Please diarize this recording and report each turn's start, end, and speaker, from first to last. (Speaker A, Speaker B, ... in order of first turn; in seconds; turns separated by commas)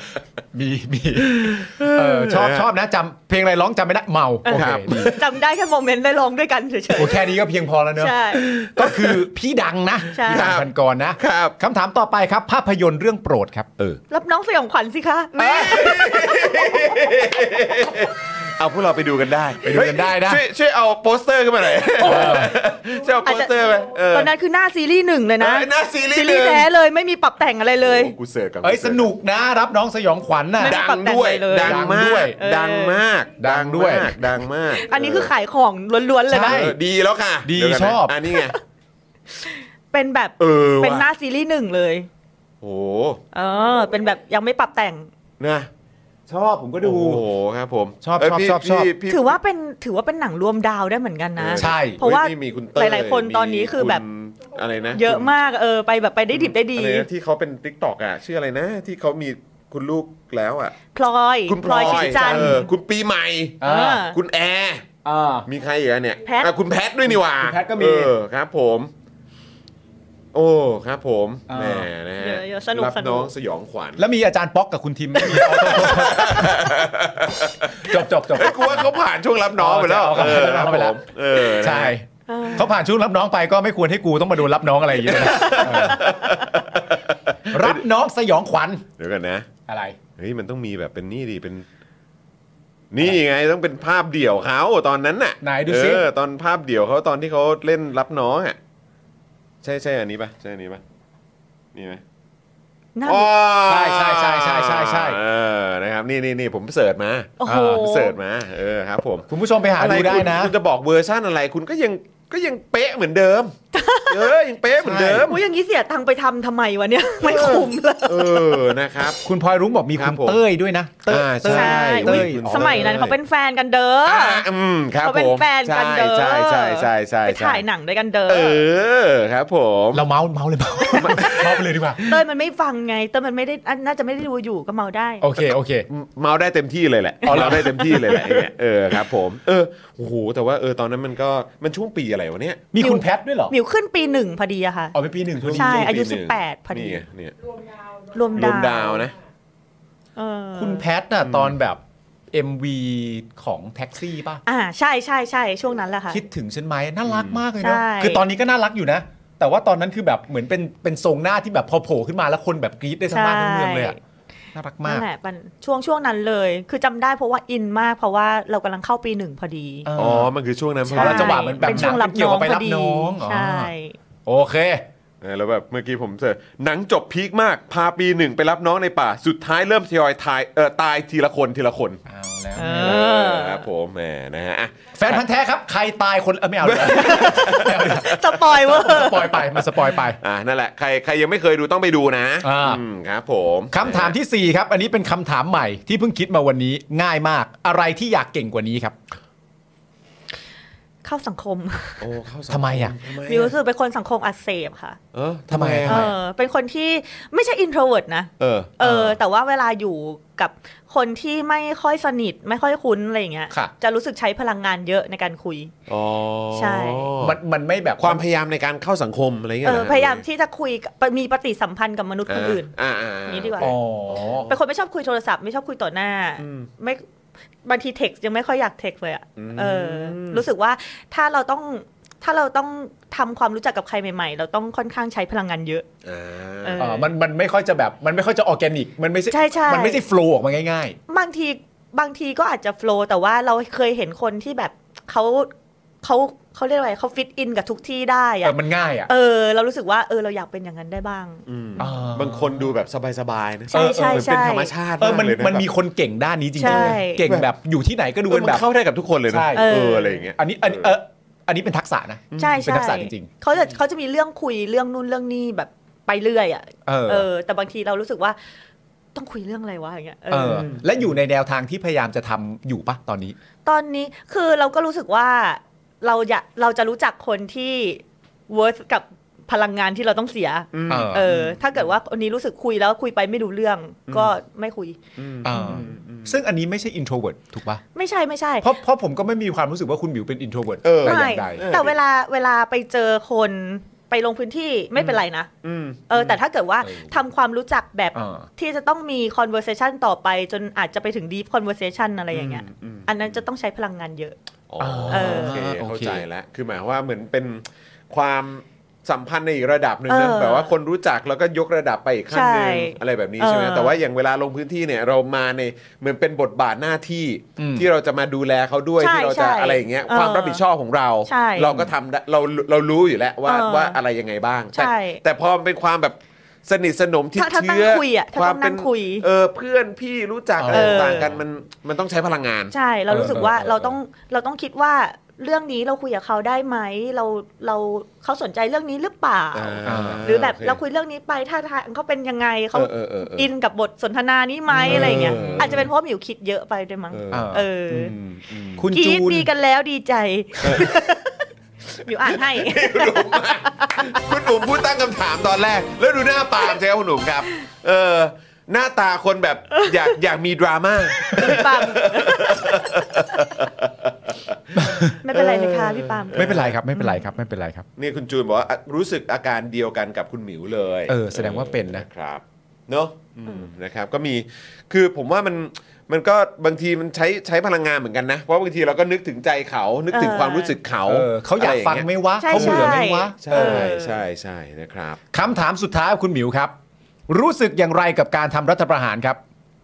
Speaker A: 0.5-5.1, Speaker B: 1.1-2.7, Speaker C: 4.4-7.3, Speaker B: 4.5-5.2, Speaker A: 6.9-8.1, Speaker C: 8.0-8.5, Speaker B: 8.3-9.2, Speaker A: 8.8-13.7, Speaker C: 10.1-10.5, Speaker B: 10.2-11.6, Speaker C: 14.1-16.2, Speaker B: 15.3-24.3, Speaker A: 15.4-15.9, Speaker A: 19.6-20.4, Speaker A: 22.0-22.5, Speaker C: 23.2-23.5, Speaker C: 24.1-28.1, Speaker B: 25.4-26.7, Speaker B: 27.8-29.1, Speaker A: 28.6-30.8, Speaker C: 30.6-33.0, Speaker B: 30.6-35.3, Speaker A: 31.6-32.4, Speaker A: 33.4-34.1, Speaker C: 34.7-36.6, Speaker A: 36.3-36.8, Speaker B: 36.4-38.6, Speaker A: 37.4-38.1, Speaker C: 39.3-42.1, Speaker B: 40.4-41.1, Speaker B: 42.6-43.2, Speaker C: 43.3-45.1, Speaker B: 45.4-45.7, Speaker A: 46.3-47.2, Speaker B: 46.8-49.4, Speaker A: 48.0-48.9, Speaker C: 49.1-54.0, Speaker B: 51.4-55.3, Speaker A: 51.6-52.0, Speaker C: 54.9-57.1, Speaker B: 56.3-60.7, Speaker C: 60.9-62.7, Speaker B: 61.5-64.9, Speaker A: 61.6-62.6, Speaker A: 63.6-64.0, Speaker C: 63.6-64.2, Speaker A: 65.0-65.5, Speaker B: 65.5-68.9, Speaker C: 66.2-66.5, Speaker A: 67.0-68.1, Speaker B: 70.3-74.0, Speaker A: 71.5-71.9, Speaker C: 72.2-73.3, Speaker A: 74.0-76.5, Speaker C: 75.2-76.0, Speaker B: 75.2-81.9, Speaker A: 77.8-78.8, Speaker A: 79.6-86.0, Speaker C: 82.3-82.8, Speaker B: 85.0-87.8, Speaker C: 85.3-85.9, Speaker A: 87.5-88.8, Speaker B: 89.0-89.5, Speaker A: 89.7-90.0, Speaker B: 90.2-91.7, Speaker B: 92.9-98.6, Speaker A: 95.4-96.0, Speaker B: 99.6-100.8, Speaker B: 101.7-102.0, Speaker C: 103.0-103.3, Speaker B: 103.0-113.5, Speaker A: 103.7-105.2, Speaker C: 107.4-108.2, Speaker A: 107.5-107.8, Speaker A: 109.3-110.5, Speaker C: 113.7-114.3, Speaker B: 114.1-115.4, Speaker A: 114.8-115.3, Speaker C: 115.2-118.7, Speaker B: 117.2-119.2, Speaker A: 119.2-122.9, Speaker B: 119.9-120.4, Speaker B: 121.1-123.2, Speaker C: 121.5-124.5, Speaker B: 124.0-127.6, Speaker C: 125.0-128.6, Speaker B: 128.3-130.1, Speaker A: 129.9-132.1, Speaker B: 130.9-131.6, Speaker C: 130.9-135.2, Speaker A: 135.2-135.9, Speaker B: 135.9-142.6, Speaker A: 137.2-138.5, Speaker C: 137.3-137.7, Speaker A: 142.7-143.5, Speaker C: 142.8-144.9, Speaker A: 144.9-145.9, Speaker B: 145.4-147.3, Speaker C: 145.5-147.0, Speaker C: 148.1-149.1, Speaker B: 148.3-149.2, Speaker C: 150.2-150.8, Speaker A: 150.6-151.8, Speaker B: 151.2-151.6, Speaker A: 152.3-154.4, Speaker C: 154.4-156.2, Speaker A: 156.1-163.9, Speaker B: 157.1-157.4, Speaker C: 157.6-158.2, Speaker C: 163.1-163.9, Speaker A: 164.5-165.1, Speaker C: 164.8-169.9, Speaker A: 169.8-170.3, Speaker B: 169.9-172.0, Speaker C: 170.9-174.0, Speaker A: 170.9-173.7, Speaker A: 174.2-174.8, Speaker B: 175.2-182.0, Speaker A: 182.1-183.0, Speaker C: 182.6-183.7, Speaker B: 182.7-185.2, Speaker A: 184.9-190.2, Speaker B: 186.6-188.3, Speaker C: 186.8-189.6, Speaker B: 190.2-194.2, Speaker A: 192.4-192.8, Speaker A: 193.7-198.9, Speaker C: 201.0-202.1, Speaker B: 202.0-203.5, Speaker A: 202.5-202.9, Speaker C: 203.1-205.0, Speaker B: 205.1-206.1, Speaker A: 205.5-206.1, Speaker C: 205.8-215.7, Speaker B: 208.4-208.8, Speaker A: 208.8-209.2, Speaker B: 215.9-217.4, Speaker C: 216.5-217.1, Speaker A: 217.2-218.2, Speaker B: 218.0-220.2, Speaker C: 219.6-222.7, Speaker B: 222.3-223.7, Speaker C: 223.2-227.0, Speaker A: 223.6-224.5, Speaker B: 226.4-226.7, Speaker C: 227.6-235.8, Speaker B: 229.3-230.4, Speaker B: 236.0-236.8, Speaker C: 236.6-237.1, Speaker A: 236.8-241.0, Speaker C: 239.3-240.0, Speaker C: 241.1-245.5, Speaker C: 246.0-248.6, Speaker A: 248.4-249.1, Speaker C: 249.1-251.4, Speaker B: 251.5-255.7, Speaker A: 251.8-252.7, Speaker C: 253.7-254.7, Speaker A: 253.7-254.3, Speaker A: 255.0-258.6, Speaker C: 256.6-257.2, Speaker B: 256.6-257.5, Speaker B: 258.3-260.9, Speaker A: 259.3-259.8, Speaker C: 259.5-260.3, Speaker A: 260.4-263.3, Speaker B: 262.3-262.6, Speaker C: 262.4-268.4, Speaker A: 266.9-267.3, Speaker C: 269.1-270.7, Speaker A: 270.3-273.4, Speaker B: 270.4-271.1, Speaker C: 273.6-285.0, Speaker B: 280.7-281.9, Speaker A: 280.9-281.2, Speaker B: 284.1-284.3, Speaker B: 285.2-286.4, Speaker A: 285.4-287.8, Speaker C: 285.5-285.8, Speaker C: 287.9-288.7, Speaker A: 288.6-291.7, Speaker B: 290.8-292.0, Speaker C: 291.0-295.5, Speaker B: 294.9-296.4, Speaker C: 296.1-304.4, Speaker A: 298.1-298.5, Speaker B: 302.3-303.4, Speaker B: 304.7-334.0, Speaker A: 304.8-306.2, Speaker C: 305.1-305.6, Speaker C: 310.1-310.7, Speaker C: 312.3-314.0, Speaker A: 317.6-317.9, Speaker C: 319.0-320.6, Speaker C: 321.2-321.8, Speaker C: 323.4-324.0, Speaker C: 324.7-325.2, Speaker C: 327.4-329.2, Speaker A: 330.6-331.4, Speaker C: 330.7-331.3, Speaker C: 332.7-348.1, Speaker A: 333.1-333.5, Speaker B: 339.5-340.8, Speaker A: 339.8-340.2, Speaker B: 342.7-343.5, Speaker B: 344.8-345.9, Speaker A: 344.8-345.9, Speaker B: 347.1-348.9, Speaker A: 347.3-347.6, Speaker A: 348.8-349.5, Speaker C: 348.9-354.4, Speaker B: 350.6-350.9, Speaker B: 352.3-366.8, Speaker C: 359.7-360.1, Speaker C: 361.3-362.8, Speaker A: 364.8-365.2, Speaker C: 365.2-367.3, Speaker A: 366.3-367.9, Speaker B: 368.0-385.2, Speaker A: 371.1-372.1, Speaker C: 380.1-380.8, Speaker A: 381.0-383.9, Speaker C: 382.4-384.2, Speaker A: 385.3-386.7, Speaker A: 387.3-389.4